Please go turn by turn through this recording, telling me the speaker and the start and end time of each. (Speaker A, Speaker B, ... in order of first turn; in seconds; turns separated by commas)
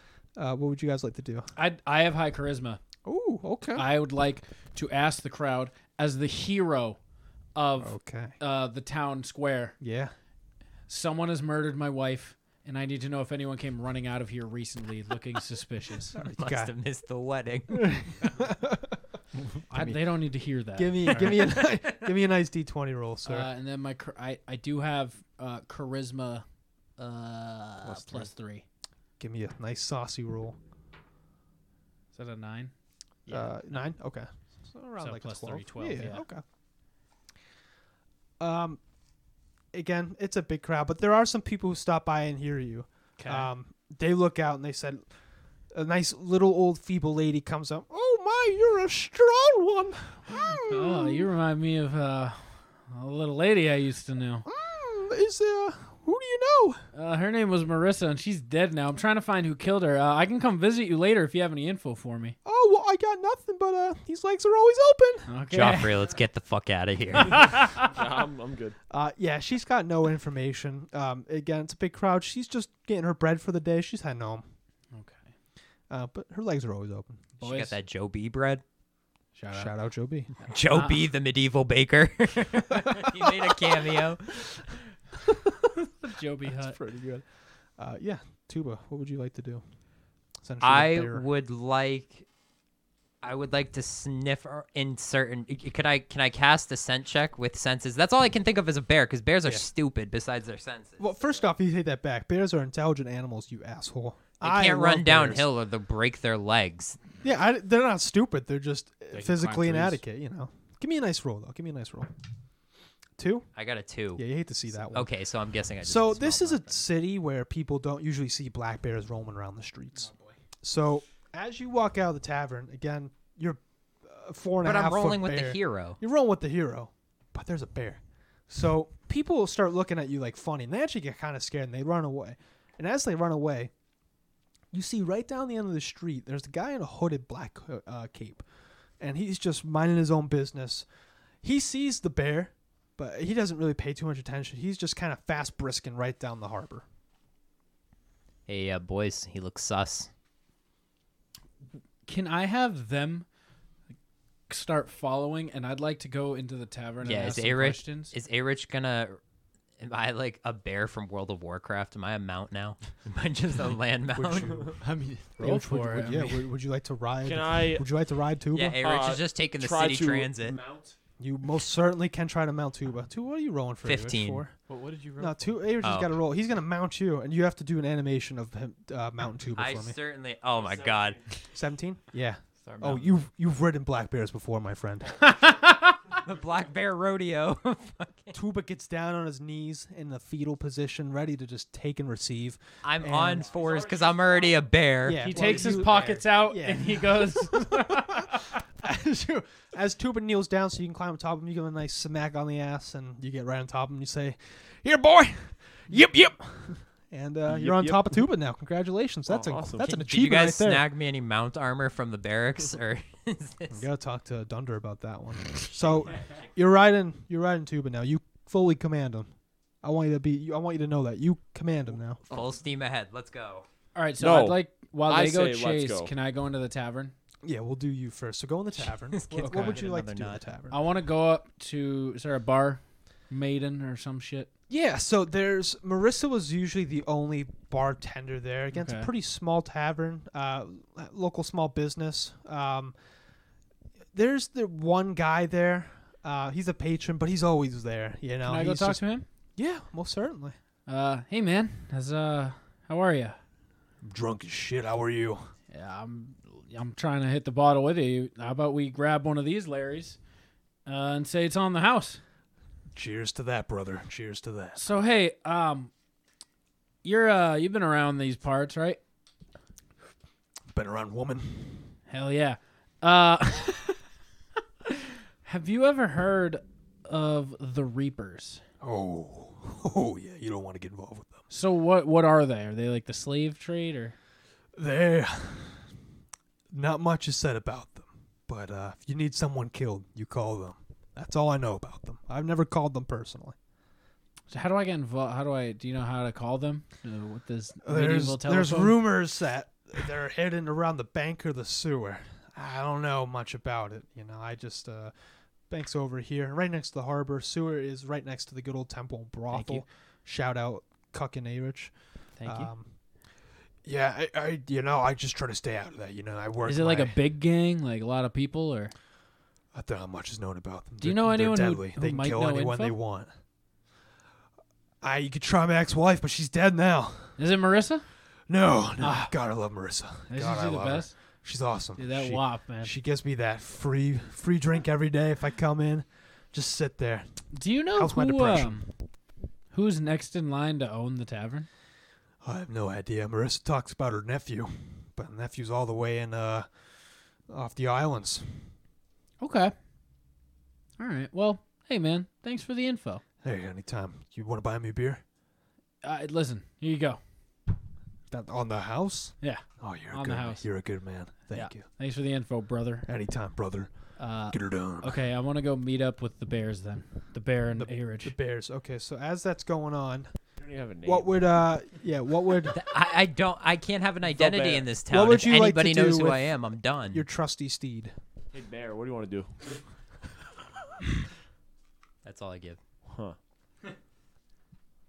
Speaker A: 0.3-1.5, Speaker B: 1.6-2.8, Speaker A: 3.0-3.9, Speaker B: 3.8-7.0, Speaker B: 7.5-9.8, Speaker A: 7.8-8.3, Speaker A: 9.8-10.1, Speaker B: 10.9-16.1, Speaker A: 16.2-16.7, Speaker C: 16.2-17.9, Speaker A: 17.7-18.9, Speaker A: 19.7-20.0, Speaker B: 19.7-21.6, Speaker A: 20.7-23.5, Speaker C: 21.1-21.7, Speaker B: 23.2-26.4, Speaker B: 27.0-28.6, Speaker D: 27.9-28.2, Speaker A: 29.2-30.6, Speaker B: 32.1-32.7, Speaker B: 33.2-33.8, Speaker A: 33.3-36.4, Speaker B: 35.0-36.2, Speaker A: 38.4-38.8, Speaker A: 39.7-45.0, Speaker B: 43.2-43.5, Speaker A: 45.7-51.3, Speaker B: 50.6-54.5, Speaker A: 54.4-56.8, Speaker B: 56.9-62.4, Speaker A: 62.4-65.3, Speaker B: 65.3-66.1, Speaker C: 65.5-67.5, Speaker B: 67.3-67.8, Speaker E: 67.9-68.8, Speaker A: 68.9-74.4, Speaker B: 74.9-75.3, Speaker A: 75.9-77.3, Speaker C: 77.4-78.6, Speaker B: 77.4-77.8, Speaker B: 79.3-79.8, Speaker A: 79.5-80.3, Speaker B: 80.4-81.0, Speaker C: 80.5-84.5, Speaker B: 86.0-86.8, Speaker A: 86.5-87.2, Speaker A: 87.8-89.6, Speaker A: 90.4-91.2, Speaker C: 90.6-92.2, Speaker C: 93.2-101.5, Speaker A: 101.0-105.5, Speaker C: 104.4-107.0, Speaker A: 107.2-112.1, Speaker D: 109.1-110.0, Speaker A: 113.2-113.5, Speaker C: 113.5-114.2, Speaker A: 114.2-115.1, Speaker C: 114.9-116.8, Speaker A: 115.8-120.1, Speaker A: 120.6-133.7, Speaker C: 124.6-126.0, Speaker A: 134.7-138.4, Speaker A: 139.0-140.8, Speaker A: 141.4-146.8, Speaker C: 148.5-150.1, Speaker B: 152.1-153.2, Speaker B: 154.5-158.1, Speaker C: 157.0-159.2, Speaker C: 159.8-164.7, Speaker A: 164.1-164.8, Speaker D: 164.8-165.4, Speaker A: 165.4-168.8, Speaker B: 165.4-166.4, Speaker E: 167.2-167.9, Speaker C: 168.5-170.6, Speaker E: 168.8-170.9, Speaker A: 171.2-174.5, Speaker C: 173.8-174.4, Speaker D: 174.7-175.7, Speaker A: 175.2-180.0, Speaker C: 175.8-176.2, Speaker C: 179.6-181.2, Speaker E: 180.5-181.5, Speaker A: 181.5-185.2, Speaker D: 182.6-183.1, Speaker C: 186.2-188.3, Speaker A: 188.3-193.5, Speaker C: 192.8-196.2, Speaker E: 193.4-194.9, Speaker A: 195.0-198.3, Speaker B: 195.2-198.4, Speaker A: 198.8-210.8, Speaker D: 207.5-208.0, Speaker E: 209.3-209.9, Speaker C: 209.8-213.8, Speaker A: 213.7-219.3, Speaker C: 216.1-216.4, Speaker A: 219.8-222.2, Speaker E: 222.3-222.5, Speaker C: 222.3-223.7, Speaker B: 223.9-227.1, Speaker E: 224.2-226.1, Speaker A: 227.4-230.8, Speaker C: 228.8-230.4, Speaker B: 229.4-229.8, Speaker B: 230.7-234.5, Speaker A: 234.7-242.9, Speaker B: 238.7-239.1, Speaker A: 244.1-249.0, Speaker B: 248.4-249.3, Speaker A: 249.6-250.6, Speaker B: 250.9-253.4, Speaker A: 254.0-255.5, Speaker B: 255.7-260.2, Speaker B: 260.9-262.2, Speaker A: 262.9-264.8, Speaker B: 264.8-265.9, Speaker B: 267.0-269.0, Speaker A: 270.7-271.9, Speaker B: 272.1-274.0, Speaker B: 275.4-278.6, Speaker A: 278.8-281.4, Speaker B: 281.5-284.1, Speaker A: 284.8-285.9, Speaker A: 286.7-293.6, Speaker B: 294.5-299.1, Speaker A: 297.8-305.1, Speaker A: 305.7-312.9, Speaker B: 309.5-309.9, Speaker B: 312.4-312.7, Speaker A: 313.8-317.2, Speaker B: 316.6-318.9, Speaker A: 319.7-323.3, Speaker B: 321.0-323.0, Speaker A: 325.0-327.4, Speaker B: 327.4-328.0, Speaker A: 328.5-337.3, Speaker B: 329.0-329.3, Speaker B: 330.3-331.1, Speaker B: 332.0-332.9, Speaker B: 337.5-338.8, Speaker A: 337.9-338.9, Speaker B: 339.7-341.7, Speaker A: 342.4-346.7, Speaker A: 347.5-348.7, Speaker B: 349.4-349.7, Speaker B: 351.0-353.2, Speaker A: 353.4-355.2, Speaker B: 356.0-357.2, Speaker A: 358.3-361.8, Speaker B: 359.4-360.6, Speaker B: 361.5-363.1, Speaker A: 363.1-363.9, Speaker B: 364.2-368.3, Speaker A: 364.5-365.2, Speaker A: 367.8-370.3, Speaker E: 370.6-371.5, Speaker A: 371.0-372.8, Speaker C: 372.7-377.2, Speaker E: 374.2-374.9, Speaker A: 375.1-376.5, Speaker A: 377.1-378.1, Speaker E: 378.5-379.5, Speaker C: 382.2-382.8, Speaker E: 383.1-383.4